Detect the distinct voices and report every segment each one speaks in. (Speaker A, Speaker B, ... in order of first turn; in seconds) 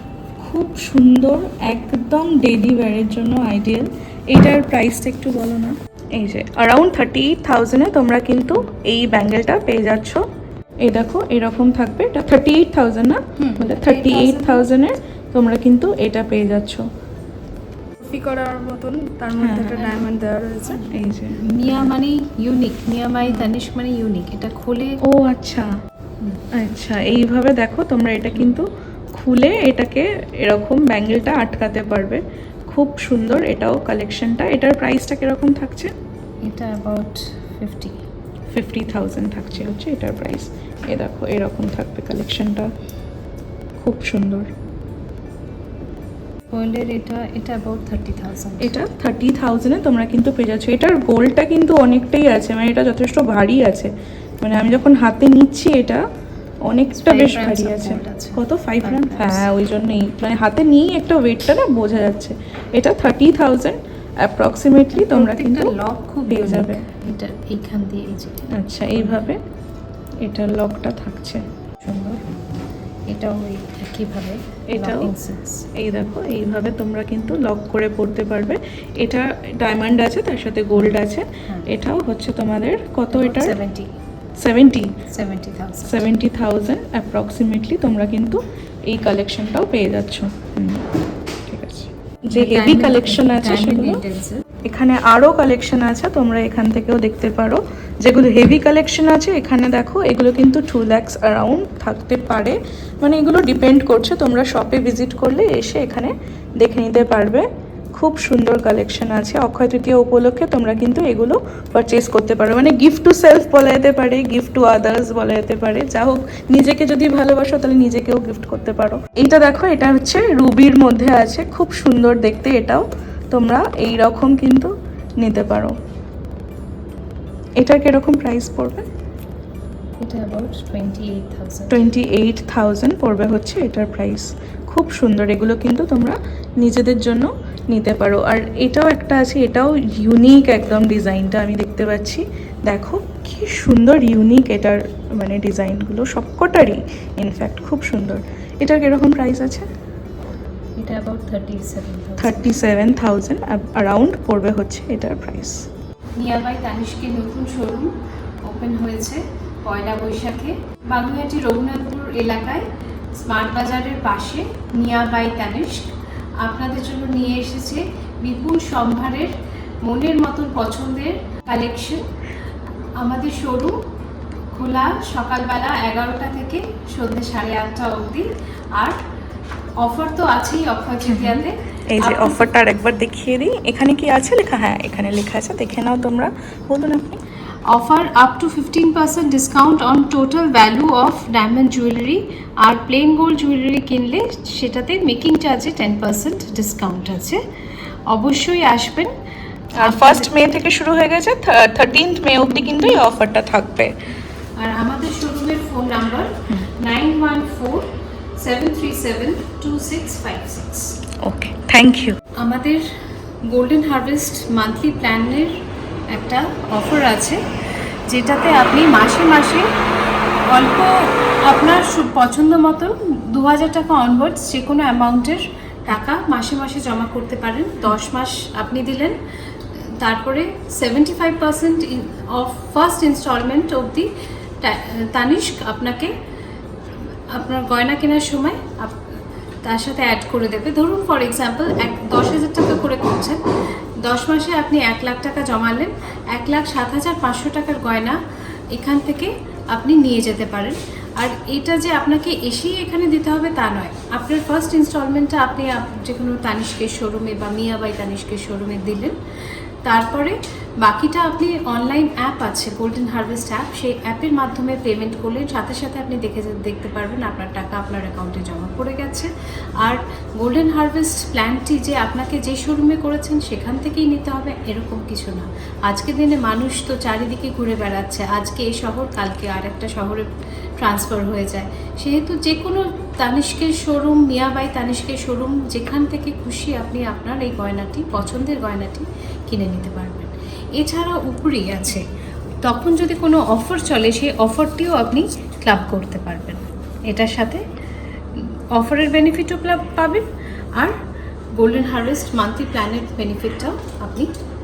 Speaker A: 0.4-10.2, 10.8-16.9, 19.4-20.0, 20.9-21.9, 25.0-25.7, 26.5-35.9, 38.5-42.7, 43.8-44.5, 48.6-56.0, 56.7-65.8, 66.3-66.9, 68.5-69.4, 70.2-71.4, 74.7-75.1, 75.8-83.6, 84.4-85.0, 85.8-90.9, 91.5-94.0, 94.6-125.8, 127.6-128.8, 131.7-149.7, 152.2-155.7, 181.1-187.2, 199.8-203.9, 211.2-212.2
Speaker B: 13.4-14.7, 19.7-20.1, 20.6-25.0, 36.4-38.0, 46.5-48.7, 56.9-59.5, 64.9-69.2, 71.8-72.2, 73.1-75.7, 81.5-81.7, 83.1-83.9, 85.1-86.0, 92.3-94.4, 130.0-131.8, 150.8-152.6, 156.2-162.7, 163.2-172.1, 173.0-173.8, 174.5-179.0, 179.8-182.5, 187.7-197.4, 198.1-199.1, 199.8-200.3, 204.6-211.0, 212.4-212.8, 213.4-217.4, 218.1-219.7, 220.5-229.2, 229.8-234.1, 234.6-236.2, 237.3-243.4, 244.0-248.2, 248.7-259.2, 259.8-269.3, 269.8-292.1, 292.6-297.6, 298.3-300.9, 301.6-304.3
Speaker C: 18.0-20.8